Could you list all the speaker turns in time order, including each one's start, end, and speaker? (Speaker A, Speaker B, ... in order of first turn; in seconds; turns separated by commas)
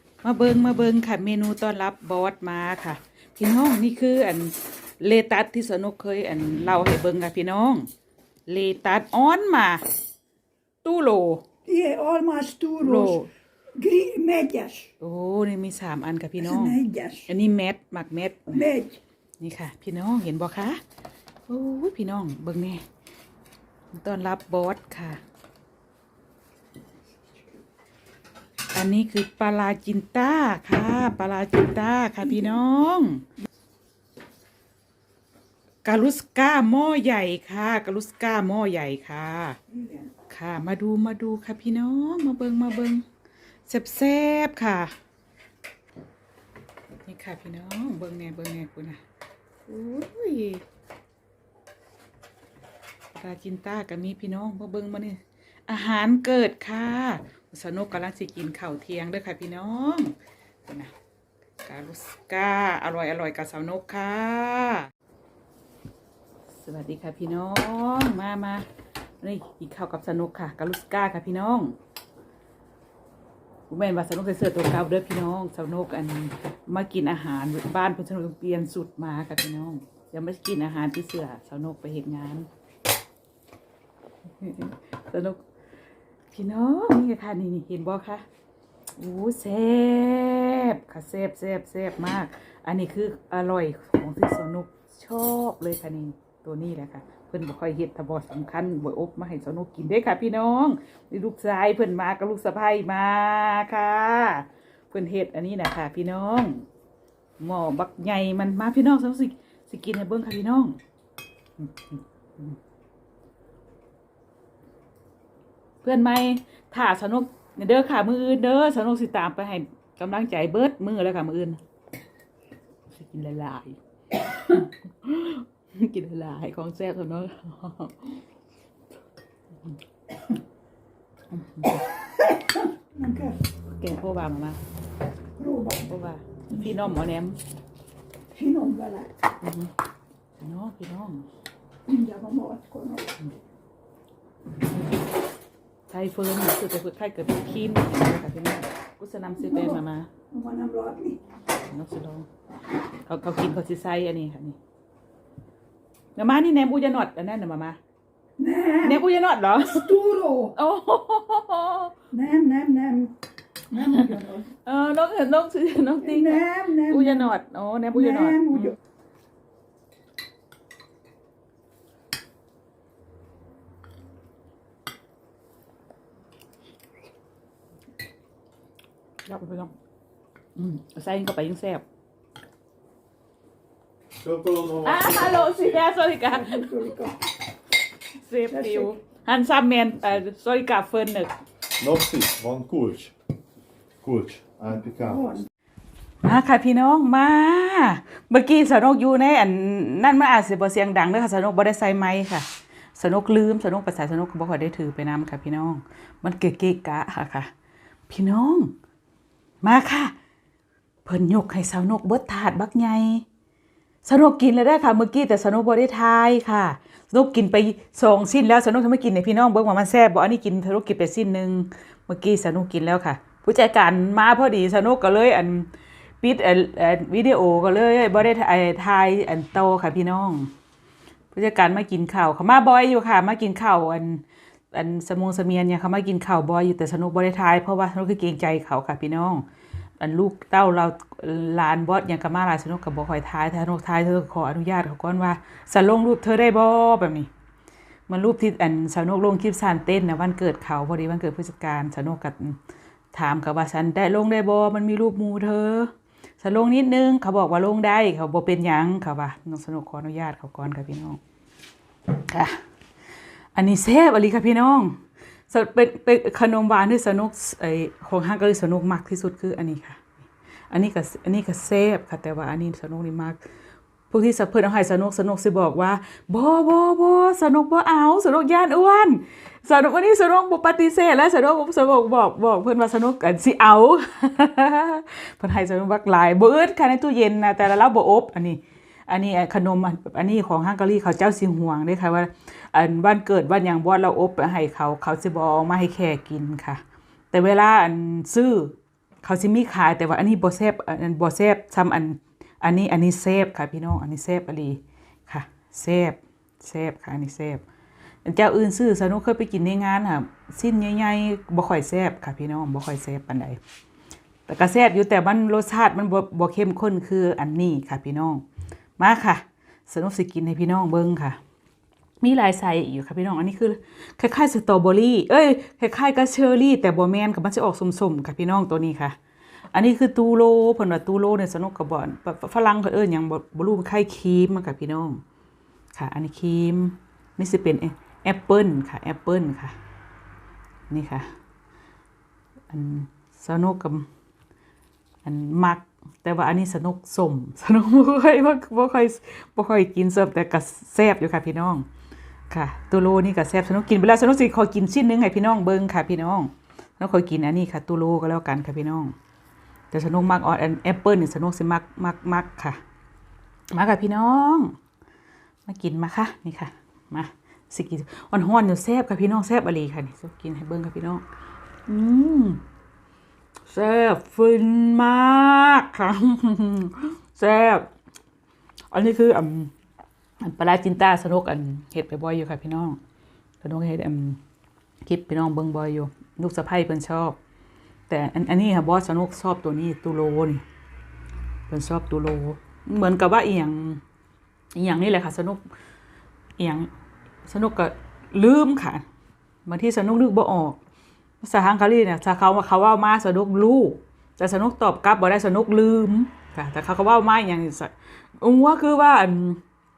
Speaker A: 0.2-7.9, Speaker A: 8.5-9.8, Speaker A: 10.8-11.4, Speaker B: 11.7-13.2, Speaker A: 12.8-13.3, Speaker B: 13.8-14.9, Speaker A: 15.0-18.6, Speaker B: 16.4-17.3, Speaker B: 18.5-19.0, Speaker A: 19.4-20.8, Speaker A: 21.5-22.8, Speaker A: 23.9-25.2, Speaker A: 28.7-33.2, Speaker A: 35.8-39.6, Speaker B: 39.7-40.0, Speaker A: 40.3-43.0, Speaker A: 43.7-44.9, Speaker A: 47.0-49.0, Speaker A: 49.7-50.6, Speaker A: 53.1-60.1, Speaker A: 60.7-60.9, Speaker A: 61.6-64.9, Speaker A: 66.5-68.7, Speaker A: 69.2-71.8, Speaker A: 73.7-82.5, Speaker A: 84.4-85.4, Speaker A: 86.3-88.2, Speaker A: 89.0-106.7, Speaker A: 107.4-110.8, Speaker A: 111.6-112.6, Speaker A: 115.8-121.6, Speaker A: 122.9-123.8, Speaker A: 124.3-128.2, Speaker A: 131.3-131.8, Speaker B: 132.3-133.4, Speaker A: 133.7-134.6, Speaker B: 135.4-135.8, Speaker A: 135.8-137.4, Speaker B: 138.3-139.1, Speaker A: 139.4-139.7, Speaker A: 140.4-141.3, Speaker B: 141.9-143.2, Speaker A: 145.9-150.1, Speaker B: 149.4-149.8, Speaker B: 150.3-151.2, Speaker A: 151.7-152.3, Speaker A: 153.1-154.6, Speaker A: 156.2-157.8, Speaker B: 158.4-159.0, Speaker A: 158.8-159.9, Speaker B: 159.7-160.5, Speaker A: 160.5-161.9, Speaker B: 162.1-163.2, Speaker B: 163.7-164.5, Speaker A: 163.8-168.8, Speaker B: 166.0-167.3, Speaker B: 168.0-168.7, Speaker A: 179.2-179.7, Speaker A: 180.6-181.8, Speaker C: 184.2-185.7, Speaker A: 184.8-186.7, Speaker B: 186.3-187.2, Speaker A: 188.2-191.3, Speaker B: 188.5-189.0, Speaker C: 191.8-193.1, Speaker C: 194.0-195.4, Speaker B: 195.0-195.4, Speaker A: 196.2-207.5, Speaker A: 208.1-208.7, Speaker A: 209.6-210.2, Speaker A: 211.0-213.2, Speaker A: 214.0-225.7, Speaker A: 226.2-230.5, Speaker A: 231.3-239.4, Speaker A: 240.0-247.3, Speaker A: 248.1-252.6, Speaker A: 253.1-261.2, Speaker A: 262.2-262.6, Speaker A: 263.6-270.1, Speaker A: 270.7-273.4, Speaker A: 274.1-307.6, Speaker A: 308.2-313.6, Speaker A: 314.5-318.4, Speaker A: 319.0-321.4, Speaker A: 322.2-329.2, Speaker A: 329.7-335.2, Speaker A: 335.9-339.8, Speaker A: 340.9-341.3, Speaker A: 342.7-344.1, Speaker A: 345.2-351.9, Speaker A: 352.5-359.1, Speaker A: 359.9-362.8, Speaker A: 363.7-364.8, Speaker A: 365.7-371.2, Speaker A: 371.9-372.6, Speaker A: 373.7-377.9, Speaker A: 378.9-379.7, Speaker A: 380.4-383.0, Speaker A: 383.6-384.4, Speaker A: 385.1-387.4, Speaker A: 388.1-390.6, Speaker A: 391.7-394.0, Speaker A: 394.8-395.6, Speaker A: 396.6-396.9, Speaker A: 397.4-399.0, Speaker A: 399.7-400.8, Speaker A: 401.4-409.6